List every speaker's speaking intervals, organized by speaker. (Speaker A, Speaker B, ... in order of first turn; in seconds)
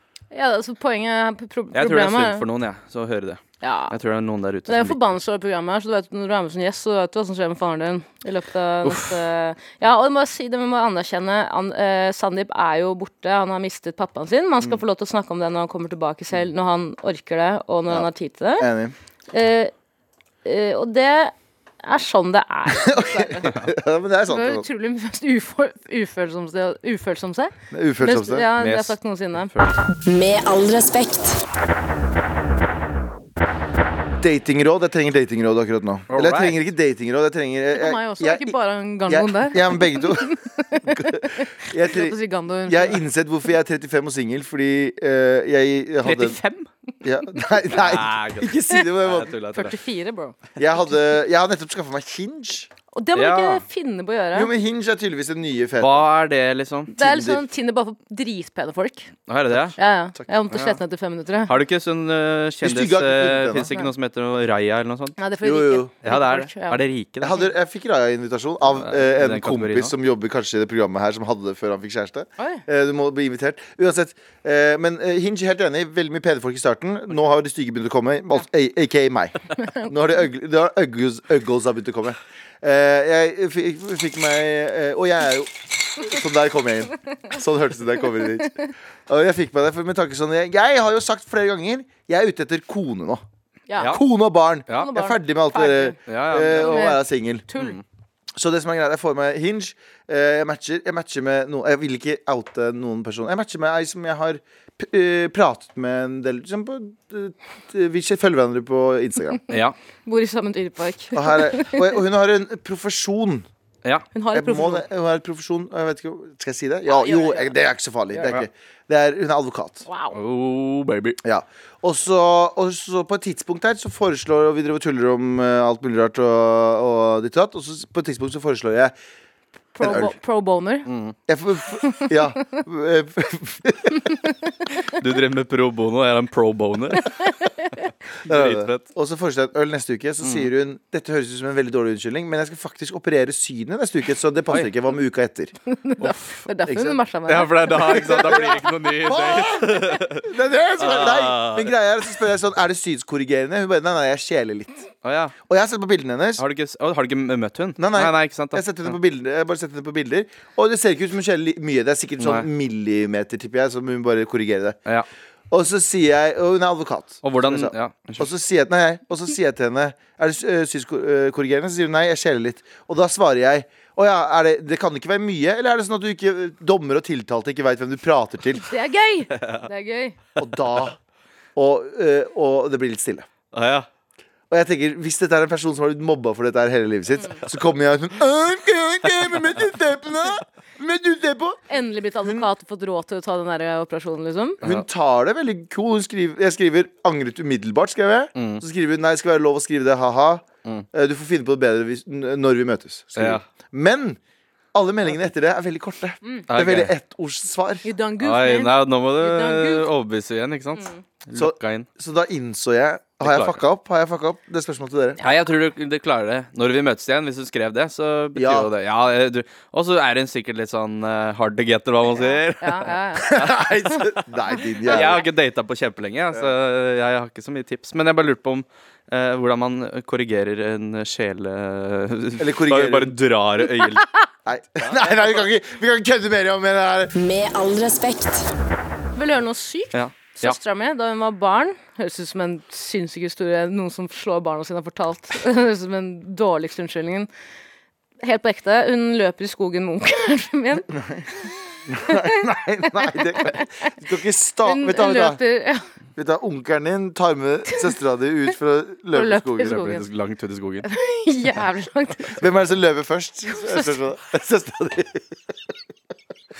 Speaker A: 0.3-2.4, 3.6-3.9, 4.7-18.7, 19.3-19.7, 20.4-23.6, 24.3-29.5, 37.8-43.0, 49.5-50.4, 52.9-54.5, 57.0-59.1, 59.8-61.5, 65.2-66.8, 93.7-94.0, 94.7-97.8, 110.0-112.0, 114.1-114.9, 116.9-117.6, 119.9-120.2, 129.8-130.9, 131.8-132.1, 145.7-148.6, 178.7-180.2, 191.7-194.6, 207.8-209.9, 222.1-224.1, 239.2-247.3, 248.2-250.9, 252.0-252.3, 252.9-253.9, 254.6-255.8, 259.1-260.0, 260.8-262.4, 263.5-263.9
Speaker B: 1.7-5.0, 8.8-9.2, 28.6-28.9, 36.1-36.6, 46.0-46.7, 47.7-49.8, 53.1-53.6, 55.8-56.9, 59.3-59.8, 60.5-60.8, 61.5-65.2, 66.0-67.4, 68.8-69.9, 93.8-94.0, 96.1-96.8, 97.6-97.8, 109.5-109.8, 120.1-121.2, 130.9-131.2, 134.9-137.2, 138.2-138.9, 140.2-140.5, 146.0-146.5, 147.3-150.3, 150.8-151.7, 155.0-155.4, 156.4-158.9, 162.2-162.5, 167.2-168.3, 179.3-179.6, 183.5-183.9, 198.4-198.6, 203.2-203.4, 206.5-206.9, 208.2-211.9, 213.2-213.6, 215.2-224.1, 224.9-234.1, 234.8-235.4, 239.9-240.6, 259.6-260.9
Speaker C: 17.9-19.0, 22.7-24.7, 27.7-28.5, 34.2-46.4, 47.0-49.3, 50.6-52.7, 54.3-56.1, 56.9-57.4, 62.6-63.7, 65.4-66.1, 67.2-88.6, 89.1-93.2, 93.8-97.5, 98.4-109.4, 111.1-113.5, 114.3-119.8, 121.2-128.9, 129.8-130.1, 131.3-134.1, 138.3-145.5, 146.7-147.0, 147.7-154.9, 155.5-156.4, 157.8-164.8, 165.5-178.7, 180.4-181.0, 181.6-183.3, 184.5-191.6, 194.6-204.2, 204.7-207.9, 211.3-215.2, 218.3-218.7, 223.2-225.2, 232.4-233.1, 234.5-237.1, 250.9-251.3, 251.9-255.4, 256.2-259.8, 262.3-265.6
Speaker D: 30.0-31.4, 237.1-238.5